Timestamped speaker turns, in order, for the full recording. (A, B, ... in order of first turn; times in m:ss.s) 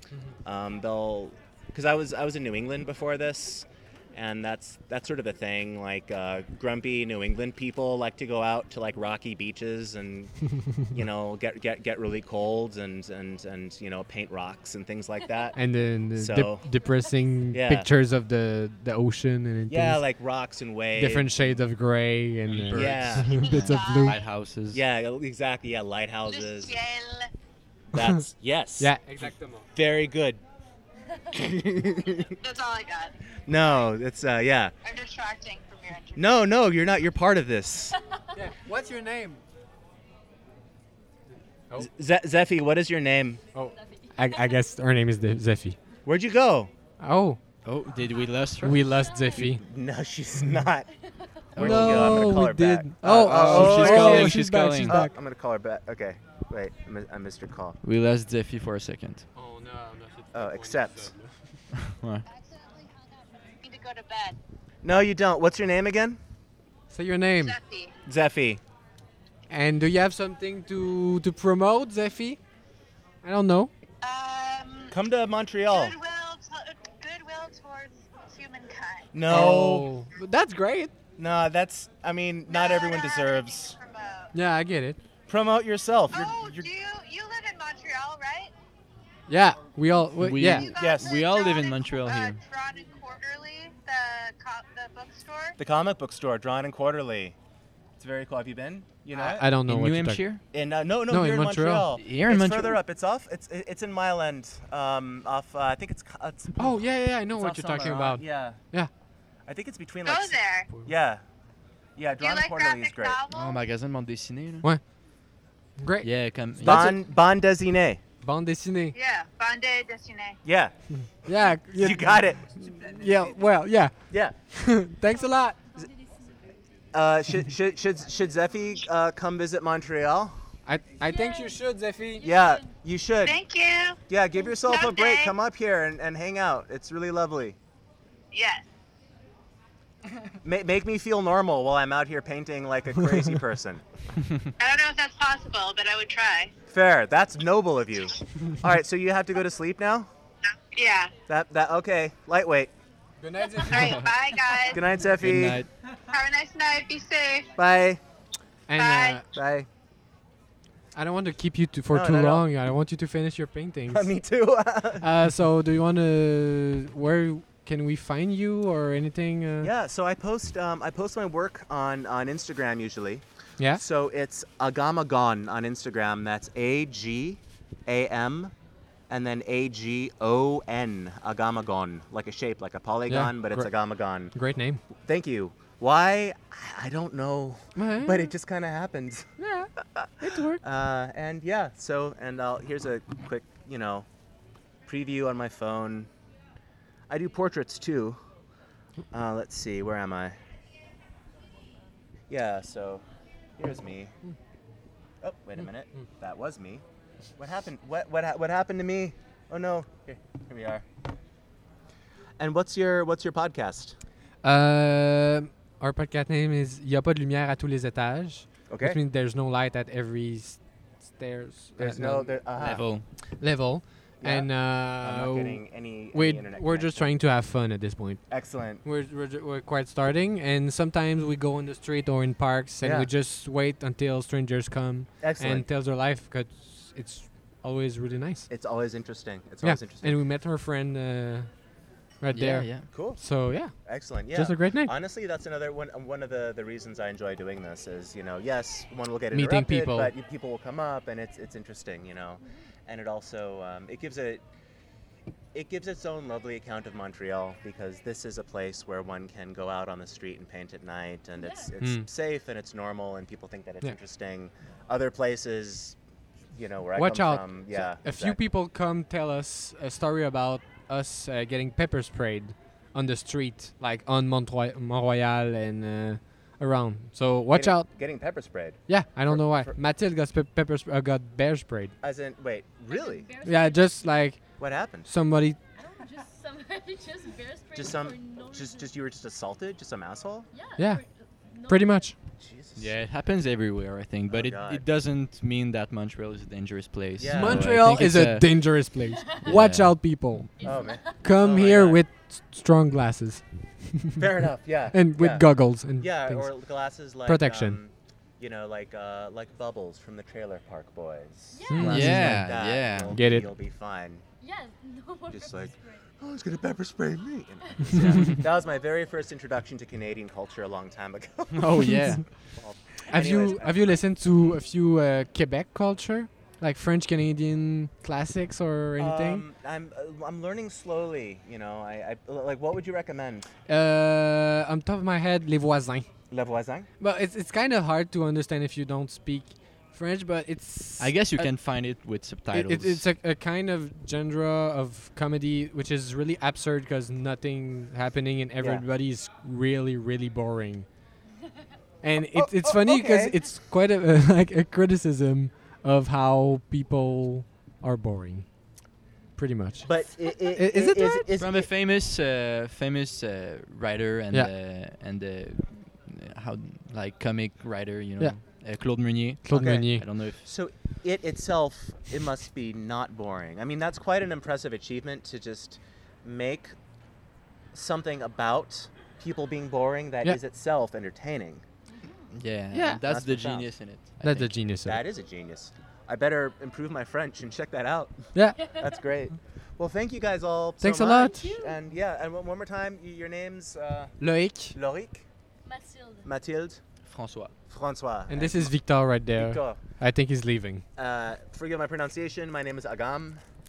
0:00.4-0:10.4 A
0:10.9-0:15.5 A
0:15.6-0:20.0 B
0:16.2-0:16.7 A
0:17.5-0:17.9 A
0:19.7-0:21.6 A
0:21.0-0:24.2 B
0:22.5-0:24.8 C
0:22.7-0:23.4 A
0:23.3-0:24.2 D
0:24.7-0:26.8 A
0:26.3-0:27.3 D
0:27.9-0:30.4 A
0:28.8-0:29.7 B
0:31.3-0:32.4 A
0:32.4-0:33.2 D
0:33.5-0:34.7 A
0:34.8-0:36.3 D
0:36.2-0:38.0 A
0:38.3-0:39.4 B
0:41.8-0:43.4 A
0:43.5-0:45.8 B
0:43.7-0:44.6 E
0:46.0-0:46.7 A
0:47.0-0:47.4 B
0:47.6-0:48.9 C
0:48.6-0:49.6 B
0:49.4-0:50.9 A
0:51.5-0:52.4 C
0:51.6-0:55.1 B
0:51.6-0:57.8 A
0:53.3-0:55.1 C
0:57.8-0:59.3 C
0:59.4-1:01.3 B
1:00.3-1:01.1 A
1:01.8-1:02.2 C
1:02.3-1:04.4 D
1:04.8-1:06.2 A
1:06.9-1:07.6 B
1:07.4-1:07.9 D
1:08.1-1:08.6 A
1:09.5-1:12.4 B
1:13.2-1:13.7 B
1:14.0-1:15.0 D
1:14.9-1:16.0 A
1:15.7-1:19.1 D
1:19.1-1:19.9 A
1:19.3-1:20.9 B
1:21.2-1:23.8 A
1:22.5-1:24.3 D
1:24.3-1:25.0 B
1:25.3-1:26.7 A
1:26.1-1:28.5 D
1:29.3-1:30.7 B
1:30.2-1:32.4 C
1:30.5-1:35.6 D
1:30.7-1:31.2 A
1:35.6-1:37.4 A
1:38.0-1:39.5 A
1:39.1-1:40.3 B
1:39.6-1:40.4 C
1:40.5-1:48.6 A
1:41.1-1:41.9 B
1:41.9-1:42.8 C
1:46.6-1:48.9 B
1:49.5-1:51.2 A
1:50.0-1:50.7 D
1:52.0-1:53.2 A
1:52.2-1:53.6 D
1:53.3-1:54.7 C
1:55.8-1:56.1 B
1:56.0-1:57.0 C
1:56.6-1:58.0 A
1:56.6-1:57.0 B
1:58.2-1:59.0 B
1:58.9-2:00.4 D
2:00.4-2:00.7 A
2:00.9-2:02.1 B
2:01.7-2:02.6 A
2:02.9-2:05.6 B
2:04.1-2:04.4 A
2:05.8-2:06.3 E
2:06.9-2:10.4 A
2:10.7-2:12.3 B
2:11.1-2:12.8 E
2:12.2-2:13.4 A
2:13.2-2:14.0 D
2:14.1-2:17.6 A
2:14.7-2:15.4 D
2:18.3-2:18.6 D
2:20.4-2:23.8 A
2:24.2-2:24.5 C
2:24.6-2:26.5 D
2:26.7-2:30.1 A
2:30.7-2:31.1 D
2:31.3-2:32.7 A
2:33.2-2:34.0 B
2:33.6-2:34.9 D
2:33.7-2:34.1 C
2:34.7-2:35.6 A
2:35.2-2:35.7 C
2:36.1-2:37.5 D
2:37.6-2:38.0 A
2:38.7-2:39.3 B
2:38.8-2:39.2 D
2:39.3-2:39.7 A
2:41.0-2:44.1 B
2:41.9-2:42.5 A
2:43.9-2:45.1 A
2:45.0-2:49.7 B
2:49.6-2:58.5 A
2:59.1-3:04.4 A
3:03.1-3:03.7 B
3:04.3-3:04.8 B
3:05.0-3:09.3 A
3:07.8-3:08.3 B
3:09.4-3:09.7 B
3:10.0-3:14.1 A
3:10.2-3:10.6 B
3:14.9-3:16.1 A
3:17.1-3:18.2 A
3:19.1-3:20.4 A
3:22.3-3:23.0 A
3:23.6-3:24.2 A
3:25.2-3:26.8 A
3:27.4-3:30.9 A
3:32.4-3:34.0 A
3:34.4-3:42.5 B
3:38.7-3:39.0 A
3:41.8-3:43.0 A
3:42.5-3:43.1 C
3:43.4-3:48.3 B
3:44.2-3:47.2 A
3:48.3-3:48.8 A
3:48.8-3:58.5 B
3:52.8-3:53.1 A
3:55.2-3:55.7 A
3:58.5-4:00.2 A
3:59.6-4:01.5 B
4:02.2-4:03.8 B
4:02.3-4:02.9 C
4:02.9-4:03.2 A
4:03.8-4:14.4 A
4:04.3-4:04.9 B
4:09.3-4:10.1 B
4:15.5-4:26.0 A
4:21.4-4:21.7 E
4:21.8-4:22.1 B
4:26.5-4:28.4 A
4:27.0-4:38.0 B
4:37.5-4:39.8 A
4:38.9-4:42.0 B
4:42.0-4:43.4 A
4:42.9-4:44.1 E
4:43.4-4:45.6 B
4:44.6-4:45.1 A
4:45.8-4:48.9 E
4:47.7-4:50.5 A
4:50.5-4:52.1 E
4:51.7-4:52.2 B
4:52.4-4:52.9 A
4:52.8-4:58.6 C
4:54.3-4:54.9 A
4:57.2-4:57.8 A
4:57.3-5:00.7 B
4:59.1-4:59.4 E
4:59.4-5:00.0 C
5:00.6-5:01.3 E
5:00.6-5:02.0 A
5:01.2-5:04.2 B
5:04.2-5:14.2 A
5:04.9-5:06.5 B
5:07.2-5:07.8 B
5:11.5-5:12.0 E
5:11.7-5:12.5 B
5:11.8-5:13.2 C
5:13.1-5:13.5 B
5:14.4-5:16.0 E
5:15.3-5:24.0 A
5:17.9-5:18.4 C
5:21.5-5:22.5 C
5:23.1-5:29.4 B
5:29.0-5:33.5 A
5:33.7-5:36.1 B
5:36.3-5:36.9 A
5:37.0-5:41.6 B
5:41.0-5:43.1 C
5:42.5-5:50.9 B
5:48.6-5:48.9 A
5:52.0-5:58.5 B
5:52.3-5:53.4 A
5:59.4-6:00.0 B
5:59.8-6:01.7 A
6:00.5-6:01.3 B
6:01.4-6:10.5 C
6:09.4-6:10.1 B
6:09.5-6:09.9 A
6:10.4-6:16.8 A
6:17.7-6:21.6 A
6:22.3-6:24.5 C
6:22.7-6:23.0 B
6:23.0-6:23.7 A
6:24.2-6:25.0 B
6:24.8-6:34.2 A
6:28.3-6:28.7 B
6:28.6-6:28.9 E
6:30.8-6:31.6 B
6:31.3-6:31.8 E
6:34.2-6:34.8 B
6:34.7-6:35.3 A
6:35.7-6:36.3 E
6:36.2-6:36.8 A
6:37.0-6:37.5 C
6:37.7-6:38.8 A
6:38.3-6:40.8 B
6:39.3-6:39.8 A
6:41.0-6:43.4 A